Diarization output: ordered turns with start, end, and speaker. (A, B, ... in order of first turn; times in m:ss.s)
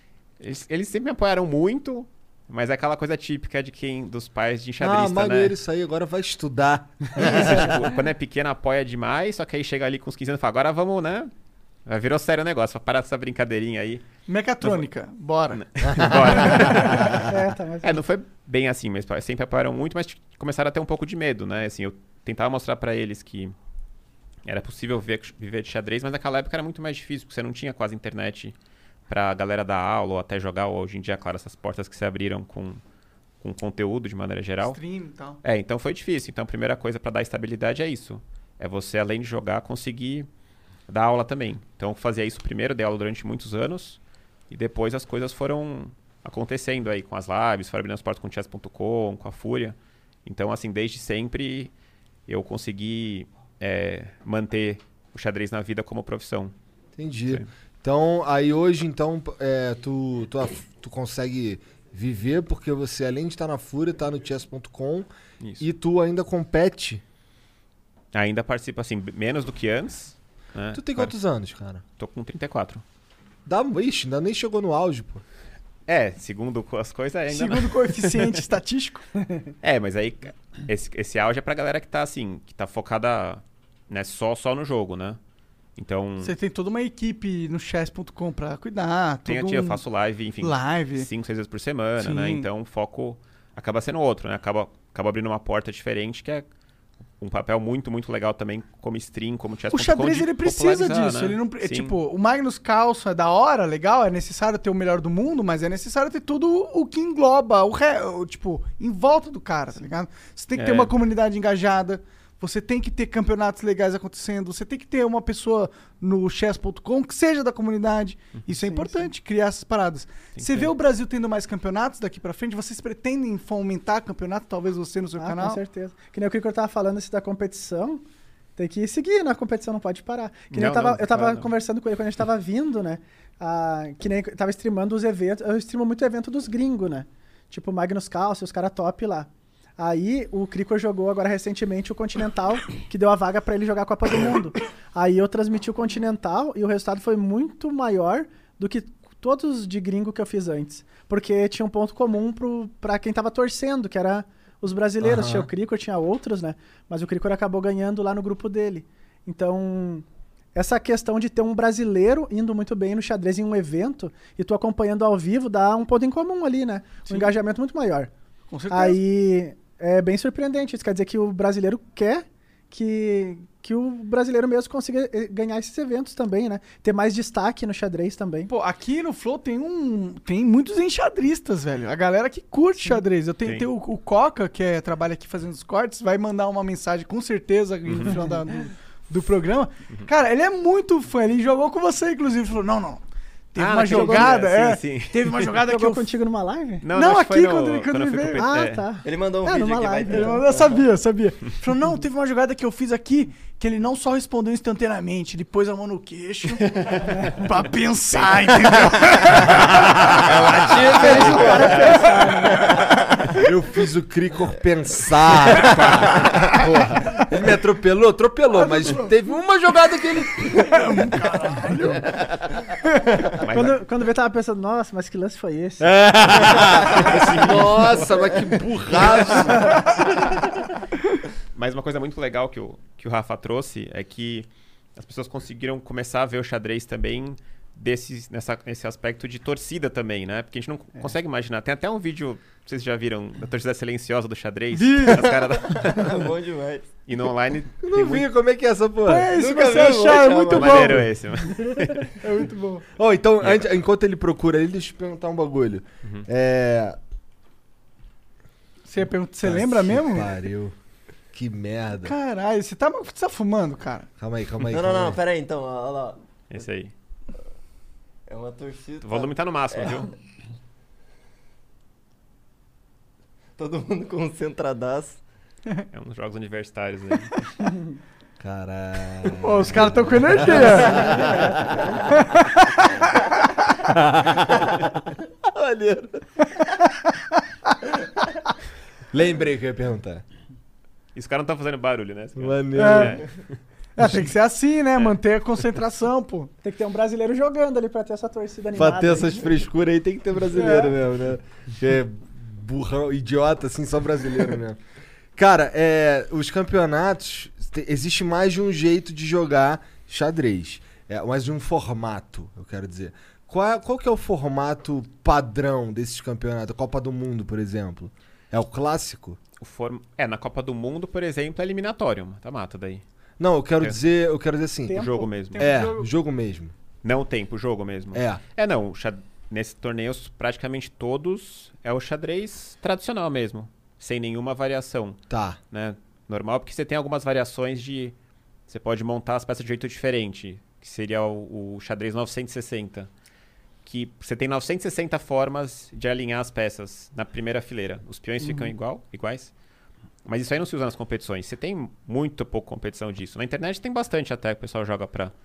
0:00.4-0:05.6 A
0:04.8-0:07.9 B
0:07.2-0:11.3 A
0:11.9-0:14.0 A
0:14.3-0:15.6 C
0:15.6-0:17.3 A
0:15.8-0:17.2 B
0:16.4-0:17.0 C
0:17.2-0:18.0 D
0:17.8-0:23.5 A
0:24.4-0:28.5 A
0:29.1-0:32.8 A
0:33.4-0:34.8 A
0:34.6-0:35.4 C
0:35.4-0:40.3 A
0:40.9-0:44.0 A
0:44.5-0:51.7 A
0:52.3-0:56.5 A
0:57.0-1:05.1 B
1:05.4-1:05.7 A
1:05.6-1:07.0 B
1:08.1-1:11.1 A
1:10.7-1:11.8 B
1:12.0-1:12.8 A
1:13.5-1:15.2 B
1:15.9-1:18.4 A
1:17.3-1:19.0 C
1:19.6-1:25.2 A
1:25.8-1:26.4 A
1:26.2-1:29.8 C
1:29.3-1:36.5 A
1:30.4-1:31.1 C
1:32.0-1:32.5 C
1:37.2-1:42.0 A
1:39.7-2:05.6 C
1:50.6-1:50.9 A
1:58.6-1:59.0 D
2:00.4-2:00.7 A
2:05.2-2:08.0 D
2:08.6-2:48.1 D
2:10.5-2:11.5 A
2:35.0-2:35.5 B
2:47.1-2:47.3 C
2:48.5-2:49.0 C
2:48.7-2:58.5 D
2:58.5-3:13.0 C
3:07.9-3:08.2 A
3:13.5-3:16.1 C
3:13.6-3:15.5 A
3:13.9-3:14.3 D
3:15.6-3:16.8 D
3:16.8-3:18.9 A
3:16.9-3:18.4 C
3:18.4-3:20.5 D
3:19.0-3:20.8 E
3:20.1-3:26.6 C
3:26.6-3:27.4 A
3:27.4-3:29.6 C
3:28.1-3:32.2 A
3:29.7-3:30.2 B
3:30.2-3:31.9 E
3:30.9-3:32.8 D
3:31.0-3:32.3 C
3:33.4-3:40.9 B
3:35.4-3:36.3 A
3:38.6-3:39.1 C
3:40.6-3:42.1 C
3:43.4-3:43.8 A
3:43.5-3:45.9 D
3:45.8-3:49.9 B
3:46.8-3:48.0 A
3:51.5-4:06.2 A
4:04.7-4:05.4 C
4:05.8-4:06.9 E
4:07.1-4:08.3 A
4:07.8-4:09.4 B
4:09.1-4:11.1 C
4:09.3-4:11.0 E
4:10.4-4:12.2 A
4:12.2-4:12.8 C
4:13.0-4:17.0 B
4:13.4-4:13.7 A
4:18.9-4:20.3 C
4:19.4-4:20.7 B
4:21.3-4:22.1 B
4:22.0-4:24.1 C
4:24.2-4:25.2 B
4:24.6-4:26.2 E
4:26.5-4:26.9 A
4:28.3-4:30.1 E
4:29.0-4:30.1 A
4:33.6-4:35.2 E
4:35.9-4:37.5 A
4:38.4-4:41.9 B
4:39.4-4:41.2 C
4:42.1-4:43.2 C
4:43.9-4:44.7 B
4:45.6-4:46.1 B
4:46.8-4:47.4 C
4:49.1-4:50.2 B
4:51.2-4:53.6 A
4:52.4-4:53.2 B
4:52.8-4:53.2 C
4:54.0-4:56.5 C
4:56.6-4:59.5 D
4:58.8-5:04.8 B
5:05.4-5:19.4 B
5:19.6-5:23.0 A
5:23.4-5:26.7 B
5:24.9-5:25.3 D
5:24.9-5:25.7 A
5:25.5-5:26.1 C
5:27.0-5:35.2 A
5:28.1-5:28.4 B
5:35.3-5:35.6 B
5:35.7-5:38.2 A
5:38.7-5:43.1 A
5:43.8-5:49.5 A
5:50.3-5:55.3 A